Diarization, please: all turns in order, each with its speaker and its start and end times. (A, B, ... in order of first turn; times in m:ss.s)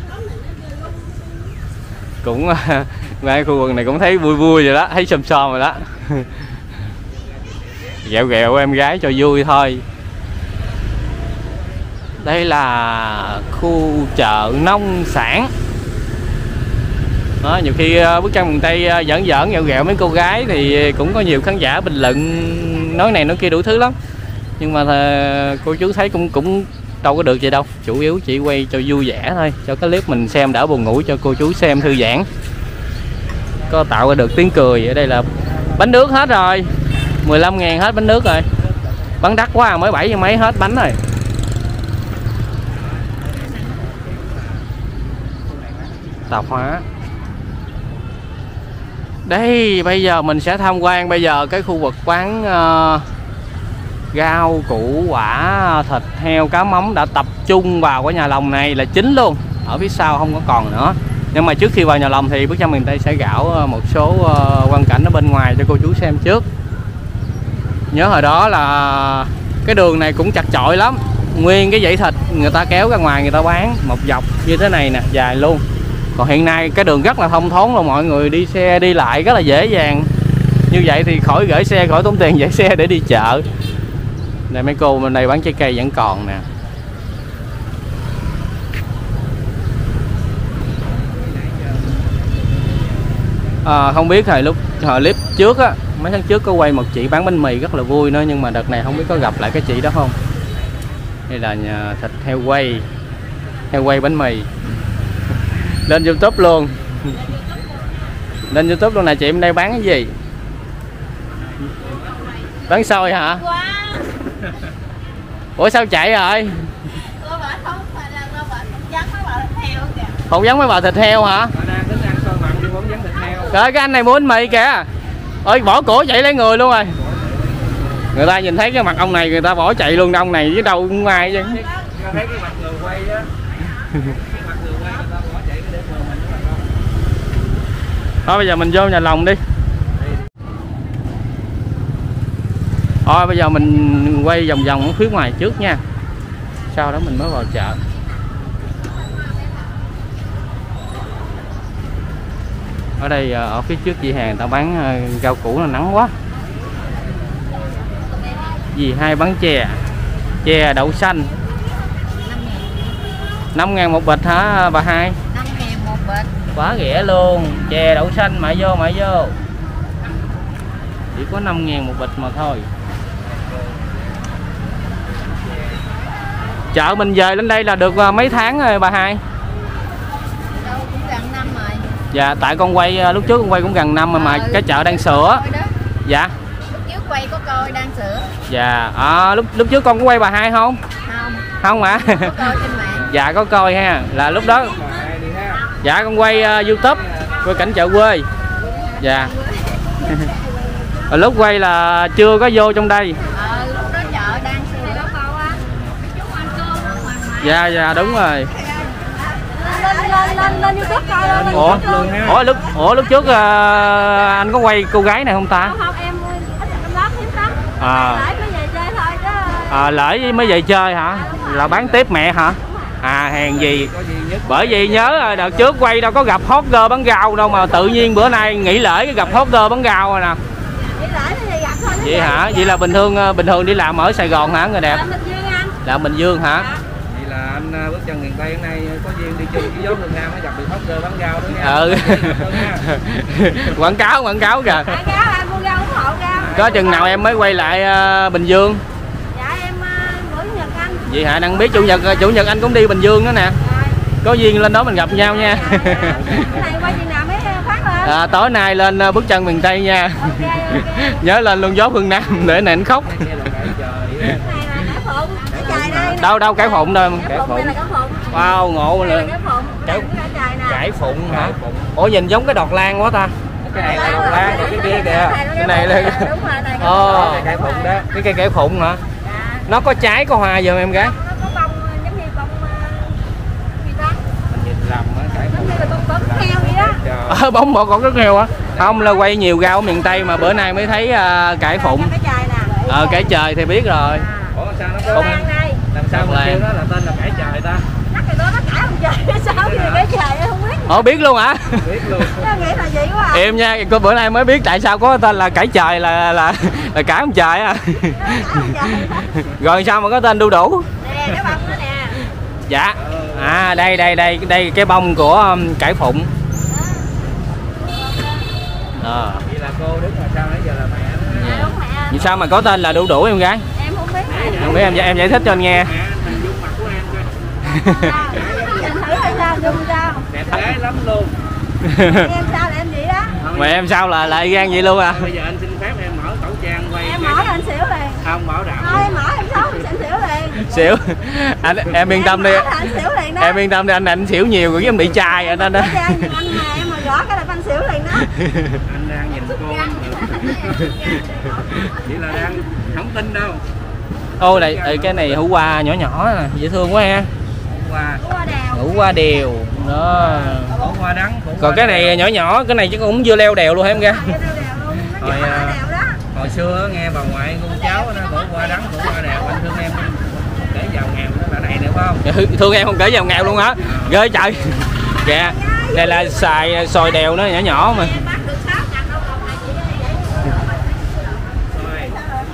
0:02.2-0:06.3 A
0:07.1-0:08.0 B
0:08.0-0:09.8 A
0:12.2-0:15.5 A
0:17.4-0:24.0 A
0:24.6-0:32.3 A
0:33.7-0:36.7 A
0:37.2-0:38.5 A
0:39.2-0:41.0 A
0:43.1-0:44.6 B
0:45.2-0:46.3 B
0:46.3-0:46.8 A
0:49.2-0:53.0 A
0:54.1-1:06.4 A
1:07.9-1:15.6 A
1:16.2-1:20.1 A
1:20.7-1:23.4 A
1:24.5-1:26.4 A
1:30.9-1:32.2 B
1:33.6-1:40.1 A
1:41.3-1:42.8 A
1:43.7-1:44.5 A
1:45.6-1:47.2 A
1:48.5-1:50.1 A
1:51.6-1:52.1 B
1:52.7-1:53.4 A
1:53.4-1:54.0 C
1:55.6-1:56.7 A
1:57.2-2:00.2 C
2:00.3-2:01.5 A
2:01.5-2:03.6 B
2:03.5-2:04.9 A
2:05.4-2:07.0 A
2:07.0-2:08.0 B
2:08.1-2:11.6 A
2:11.5-2:13.3 B
2:14.0-2:16.6 B
2:18.2-2:19.4 A
2:23.0-2:25.8 A
2:26.7-2:27.8 A
2:33.0-2:36.1 A
2:38.7-2:39.8 A
2:40.4-2:41.3 A
2:42.2-2:42.9 C
2:43.5-2:45.2 A
2:45.3-2:46.3 C
2:46.5-2:49.4 A
2:51.1-2:52.7 A
2:56.7-2:59.2 A
3:00.6-3:01.8 C
3:02.1-3:05.4 A
3:04.1-3:05.7 C
3:06.0-3:06.3 A
3:06.7-3:08.3 C
3:08.5-3:10.8 A
3:11.0-3:13.1 C
3:11.6-3:12.5 A
3:13.1-3:14.8 A
3:14.5-3:15.6 B
3:15.8-3:18.3 A
3:16.8-3:17.5 B
3:19.0-3:19.3 A
3:19.0-3:19.6 C
3:20.0-3:20.3 A
3:21.1-3:23.2 A
3:23.3-3:27.6 C
3:25.5-3:25.9 B
3:27.4-3:28.5 A
3:28.6-3:32.5 C
3:31.2-3:32.4 B
3:31.5-3:35.8 A
3:35.6-3:39.9 C
3:37.4-3:37.8 B
3:37.8-3:38.3 A
3:39.7-3:43.9 A
3:41.1-3:41.7 C
3:41.5-3:42.1 B
3:43.4-3:45.7 B
3:44.4-3:50.4 A
3:50.8-3:52.8 C
3:52.0-3:55.0 A
3:54.8-3:55.8 C
3:55.8-3:56.7 A
3:57.1-4:02.9 B
4:01.6-4:04.9 A
4:04.8-4:07.2 C
4:06.3-4:07.1 B
4:06.5-4:08.8 A
4:09.3-4:11.0 C
4:11.0-4:13.6 A
4:11.6-4:12.1 C
4:13.6-4:14.0 C
4:14.2-4:16.4 A
4:15.2-4:18.4 C
4:15.7-4:17.0 B
4:18.0-4:23.1 A
4:20.2-4:21.2 C
4:23.0-4:24.6 B
4:24.3-4:30.9 C
4:25.5-4:26.2 B
4:26.1-4:27.7 A
4:27.3-4:27.6 B
4:28.3-4:29.3 A
4:29.8-4:30.1 A
4:30.6-4:33.3 A
4:31.2-4:31.9 B
4:33.6-4:35.4 B
4:33.7-4:37.9 C
4:34.1-4:34.7 A
4:35.5-4:37.5 A
4:36.9-4:38.1 B
4:38.0-4:39.0 A
4:39.2-4:39.7 C
4:39.7-4:41.2 A
4:41.1-4:43.2 C
4:43.8-4:44.2 C
4:44.5-4:47.4 B
4:45.5-4:47.0 C
4:47.3-4:52.1 A
4:48.7-4:49.0 B
4:51.8-4:53.3 C
4:52.8-4:54.3 A
4:54.5-4:57.8 B
4:55.1-4:55.8 C
4:56.1-4:56.6 A
4:58.1-5:01.0 C
4:59.5-5:00.1 B
5:00.8-5:01.9 A
5:01.8-5:02.5 B
5:02.3-5:03.5 C
5:03.3-5:10.9 A
5:08.2-5:09.3 C
5:11.0-5:12.2 C
5:12.6-5:16.3 A
5:13.0-5:13.7 B
5:19.0-5:19.4 A
5:19.4-5:21.7 B
5:21.3-5:23.6 A
5:21.4-5:22.2 C
5:23.7-5:25.0 C
5:24.2-5:27.3 B
5:24.5-5:25.9 A
5:27.6-5:28.2 A
5:27.9-5:30.2 C
5:28.2-5:29.5 B
5:30.3-5:31.4 B
5:31.8-5:32.3 A
5:32.0-5:33.4 C
5:33.3-5:33.9 B
5:33.5-5:35.3 A
5:35.1-5:37.6 B
5:37.0-5:38.2 C
5:38.2-5:39.2 B
5:38.8-5:40.7 C
5:40.6-5:46.5 A
5:42.0-5:43.6 C
5:45.2-5:48.3 C
5:48.2-5:48.8 A
5:48.8-5:50.9 B
5:49.6-5:51.2 C
5:51.8-5:53.6 B
5:54.4-5:55.4 B
5:54.4-5:57.3 A
5:57.7-5:58.2 B
5:58.2-5:58.9 C
5:58.7-6:00.8 A
6:00.2-6:02.2 B
6:01.6-6:04.4 A
6:04.1-6:06.2 C
6:05.1-6:12.2 B
6:12.2-6:18.2 A
6:13.8-6:14.2 B
6:15.5-6:16.0 C
6:17.8-6:20.5 C
6:21.7-6:22.2 B